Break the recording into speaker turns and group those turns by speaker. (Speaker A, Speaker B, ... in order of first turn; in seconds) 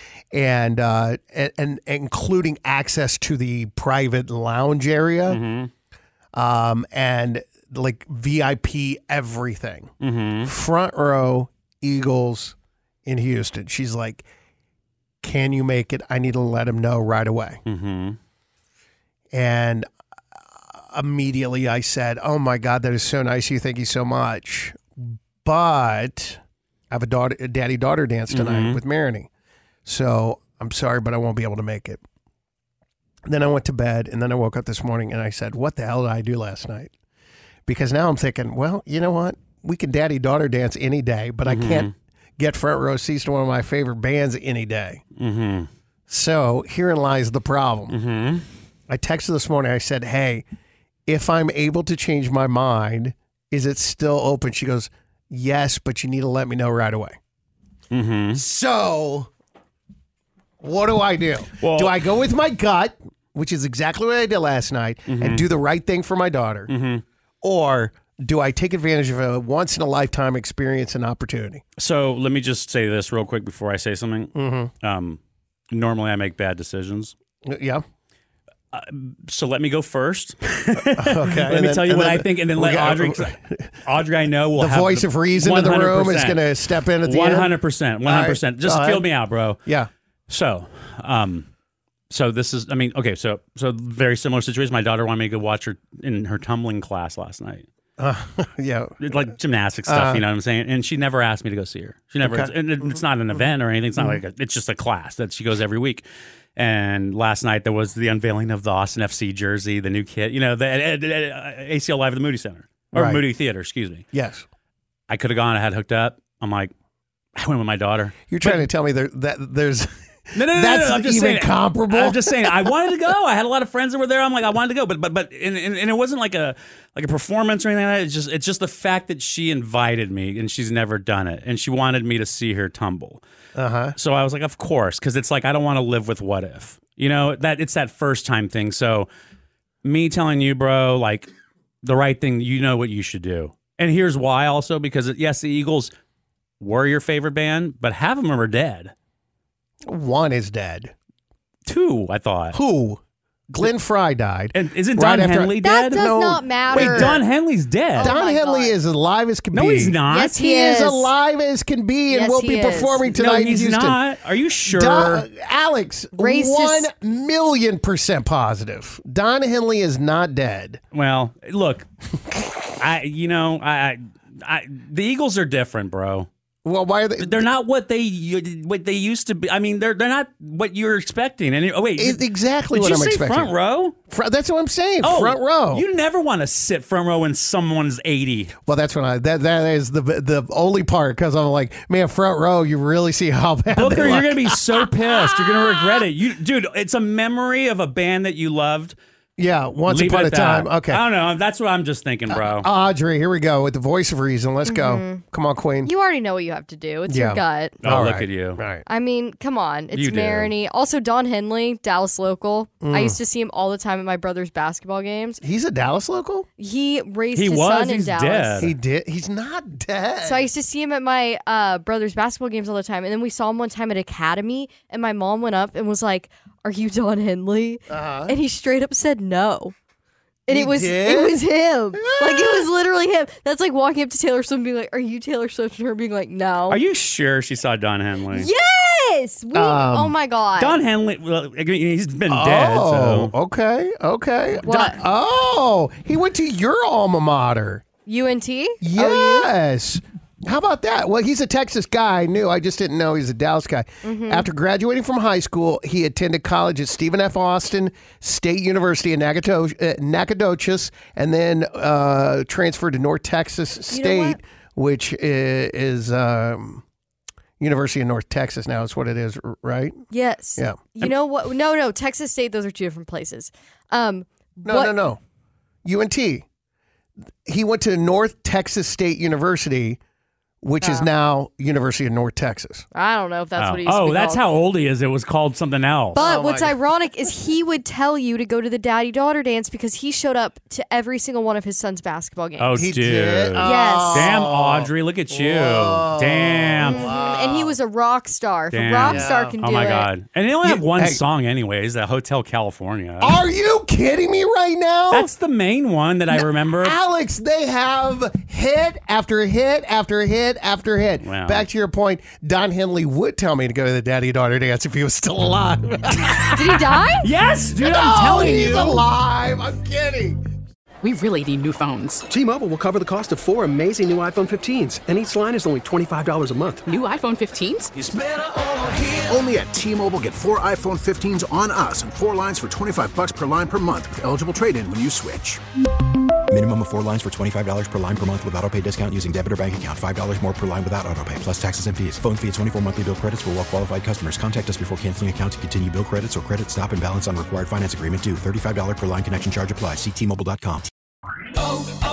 Speaker A: 0.3-5.4, 6.3-14.2, 15.2-17.6, 19.3-19.9, 20.7-29.3, 29.8-32.0, 33.2-36.9, 37.7-45.0, 46.1-48.0, 48.9-50.5, 51.1-57.2, 58.3-59.3, 60.6-66.7, 67.4-71.6, 74.3-74.7, 77.4-77.8, 80.9-83.7, 84.5-87.5, 88.0-89.9, 98.0-99.1, 99.8-100.2, 102.2-103.0, 104.0-104.2, 112.9-113.2, 114.1-114.5, 118.3-122.7, 133.5-133.9, 149.8-150.9, 152.5-157.2, 158.0-164.0, 164.6-170.8, 176.6-177.4, 182.0-183.5, 184.1-185.8, 188.7-194.6, 195.1-195.9, 199.4-201.0, 202.3-205.9, 207.1-208.8, 212.8-213.2, 215.4-216.5, 218.6-220.5, 227.9-228.3, 230.5-232.7, 239.5-240.1, 242.3-247.8, 248.8-266.8, 267.6-270.0, 274.6-275.2, 275.8-276.4, 277.4-280.0, 280.6-282.9, 286.1-286.8, 292.8-297.8, 299.1-299.6, 300.6-301.2, 303.2-305.3, 306.3-316.4, 317.8-320.4
Speaker B: 5.3-5.7, 10.0-10.5, 17.6-18.2, 28.3-28.8, 41.5-41.9, 45.2-45.7, 47.9-48.4, 57.9-58.4, 61.6-62.0, 65.1-65.5, 66.7-67.0, 71.8-75.2, 75.7-77.1, 78.7-86.5, 87.0-89.6, 90.3-91.5, 92.1-97.7, 99.0-106.0, 106.6-114.0, 115.1-116.7, 117.4-118.7, 120.3-133.2, 133.9-139.1, 139.8-141.3, 141.8-145.9, 146.6-148.9, 151.7-152.6, 154.5-156.0, 156.7-158.1, 159.5-160.3, 163.1-165.2, 170.9-171.9, 172.7-176.3, 177.2-183.9, 185.0-188.5, 193.7-199.0, 199.8-202.7, 207.8-208.6, 209.9-210.5, 217.3-218.7, 236.7-238.5, 240.6-243.3, 283.6-286.3, 292.6-297.1, 298.7-303.4, 305.1-307.0, 311.2-311.6, 316.7-319.1
Speaker C: 155.6-157.2, 157.9-158.8, 160.1-161.1, 162.1-163.1, 166.1-166.9, 204.6-205.2, 205.8-207.8, 208.9-215.4, 216.6-218.7, 220.2-229.7, 230.5-236.8, 238.3-240.8, 244.6-245.0, 248.1-249.5, 254.0-254.5, 263.9-264.4, 270.1-275.0, 280.8-281.1, 282.9-284.4, 286.1-292.9, 293.6-294.3, 296.8-300.1, 316.6-317.3
Speaker D: 321.0-322.2, 326.9-327.9
Speaker E: 322.3-326.8
Speaker F: 328.0-335.6
Speaker G: 336.5-350.9